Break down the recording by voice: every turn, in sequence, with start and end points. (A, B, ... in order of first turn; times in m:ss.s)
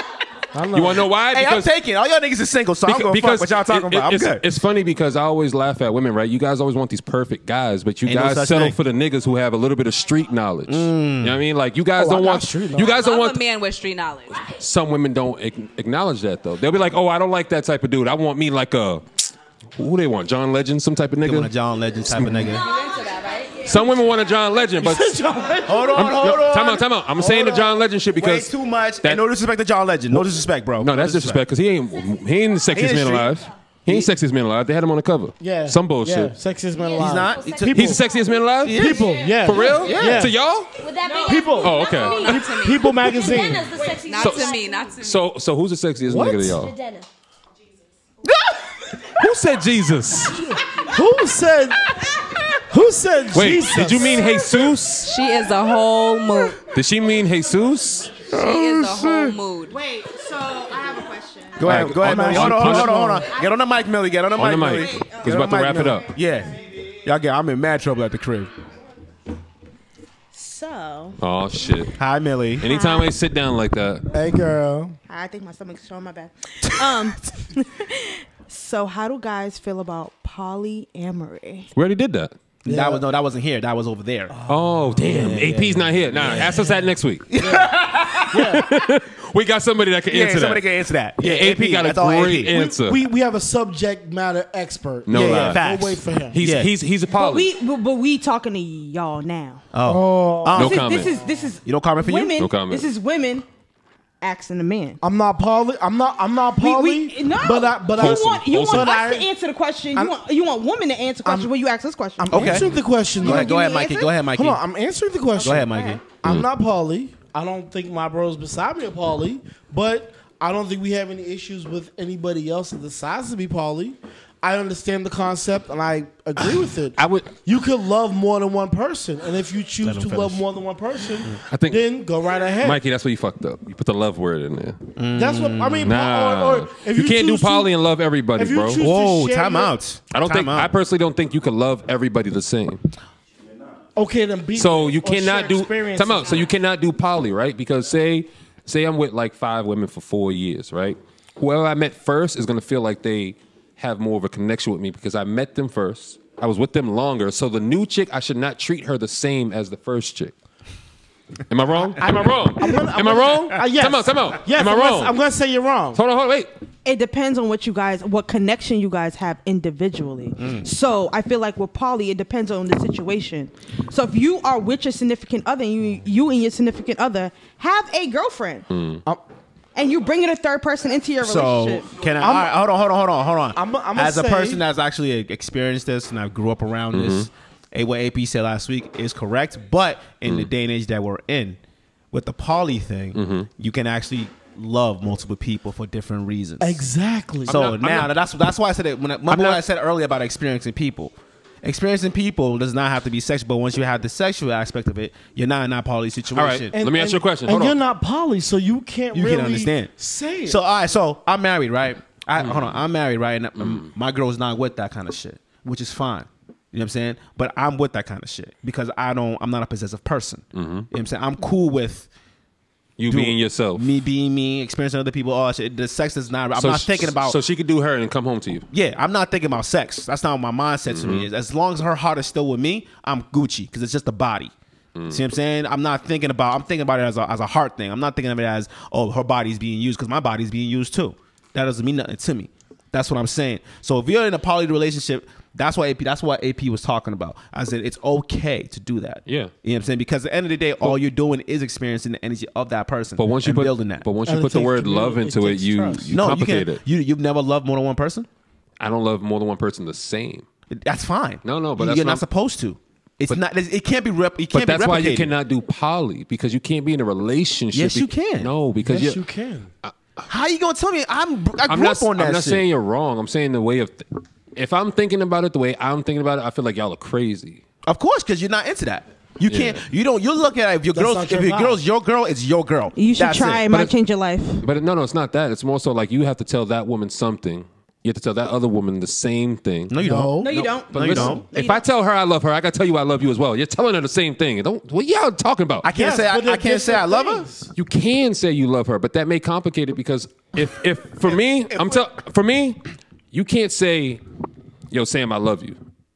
0:00.5-0:01.0 A
0:00.7-0:01.7 B
0:01.3-0:04.4 C
0:02.8-0:13.4 B
0:08.0-0:08.8 C
0:10.7-0:11.4 C
0:12.0-0:13.0 A
0:12.9-0:14.4 D
0:14.3-0:21.5 B
0:21.2-0:22.6 C
0:22.1-0:22.6 B
0:22.5-0:23.7 D
0:23.6-0:25.1 B
0:24.8-0:26.2 A
0:25.6-0:31.4 C
0:25.9-0:28.5 B
0:30.1-0:36.4 B
0:32.7-0:33.3 C
0:35.4-0:37.9 A
0:36.7-0:39.3 E
0:37.0-0:38.0 C
0:37.6-0:40.8 B
0:38.6-0:39.1 C
0:38.8-0:40.3 A
0:39.6-0:40.3 C
0:40.8-0:42.4 E
0:41.0-0:45.2 D
0:41.3-0:43.7 A
0:41.6-0:42.5 B
0:43.0-0:45.0 E
0:44.2-0:46.7 B
0:46.1-0:46.4 A
0:46.1-0:47.1 E
0:49.2-0:50.4 B
0:50.3-0:51.8 A
0:52.7-0:54.6 A
0:53.3-0:55.1 B
0:55.0-0:56.6 D
0:56.7-0:58.2 B
0:58.3-0:59.8 D
0:58.3-0:59.3 A
0:59.7-1:01.7 F
1:01.6-1:08.5 C
1:01.6-1:03.2 B
1:02.0-1:03.2 A
1:03.2-1:03.5 F
1:04.3-1:06.0 B
1:04.9-1:05.3 F
1:10.3-1:11.2 F
1:11.2-1:11.9 B
1:12.0-1:12.6 C
1:12.6-1:14.0 B
1:12.6-1:13.1 F
1:14.1-1:15.0 A
1:15.1-1:21.7 F
1:21.7-1:22.3 B
1:22.6-1:24.3 C
1:22.6-1:23.0 A
1:24.3-1:24.9 A
1:24.5-1:30.7 B
1:25.0-1:26.8 C
1:26.2-1:26.8 A
1:27.3-1:28.2 C
1:27.4-1:27.7 A
1:28.3-1:28.6 A
1:30.1-1:32.5 C
1:31.2-1:33.0 B
1:32.5-1:36.4 A
1:35.0-1:35.6 B
1:35.1-1:36.7 C
1:36.3-1:37.5 B
1:37.1-1:39.6 F
1:39.7-1:41.0 C
1:39.8-1:40.6 A
1:40.5-1:41.2 B
1:40.6-1:43.4 F
1:41.6-1:42.4 C
1:42.4-1:42.9 B
1:44.2-1:45.0 F
1:45.0-1:49.3 A
1:46.6-1:52.6 F
1:48.0-1:49.1 B
1:51.2-1:51.5 A
1:52.2-1:53.6 A
1:52.3-1:54.6 C
1:53.2-1:54.2 F
1:54.2-2:12.8 A
1:55.4-1:56.0 C
1:55.6-1:56.0 F
2:06.4-2:07.4 B
2:09.8-2:10.4 C
2:11.5-2:11.9 B
2:12.6-2:14.8 B
2:15.0-2:15.9 C
2:15.1-2:17.7 A
2:15.8-2:18.8 B
2:18.4-2:19.8 A
2:18.8-2:20.7 C
2:20.1-2:22.8 B
2:24.0-2:26.3 A
2:24.5-2:40.3 B
2:41.5-2:45.2 B
2:42.0-2:46.0 A
2:45.9-2:46.5 B
2:46.8-2:58.6 F
2:50.4-2:50.7 C
2:58.7-2:59.0 B
2:59.7-3:01.9 F
3:01.2-3:11.6 C
3:02.2-3:02.5 A
3:03.6-3:04.6 A
3:06.9-3:07.3 B
3:12.1-3:16.8 C
3:13.1-3:13.5 B
3:16.6-3:17.6 A
3:17.4-3:18.2 B
3:17.5-3:26.7 C
3:19.3-3:19.6 B
3:26.3-3:27.8 B
3:26.7-3:30.6 A
3:29.1-3:42.1 C
3:32.4-3:32.7 B
3:33.6-3:33.9 B
3:40.5-3:40.9 B
3:43.0-3:43.9 B
3:43.1-3:47.4 C
3:46.6-3:48.6 B
3:48.7-3:54.5 C
3:50.9-3:51.3 B
3:54.9-3:55.2 B
3:55.1-4:14.1 C
4:09.2-4:09.5 B
4:13.2-4:16.8 B
4:14.2-4:16.1 A
4:16.1-4:18.3 C
4:18.8-4:20.4 B
4:20.7-4:25.3 C
4:21.4-4:22.2 B
4:24.5-4:29.2 B
4:27.7-4:28.5 C
4:28.8-4:29.7 A
4:30.3-4:32.6 C
4:31.6-4:37.6 B
4:37.9-4:43.8 C
4:39.5-4:39.8 B
4:40.9-4:41.8 A
4:43.0-4:44.6 F
4:44.6-4:55.9 B
4:49.9-4:51.4 C
4:49.9-4:50.5 A
4:50.4-4:51.8 F
4:55.8-4:57.5 C
4:55.9-4:57.7 A
4:57.7-5:02.8 B
5:01.2-5:02.1 C
5:03.3-5:04.2 B
5:04.9-5:05.8 B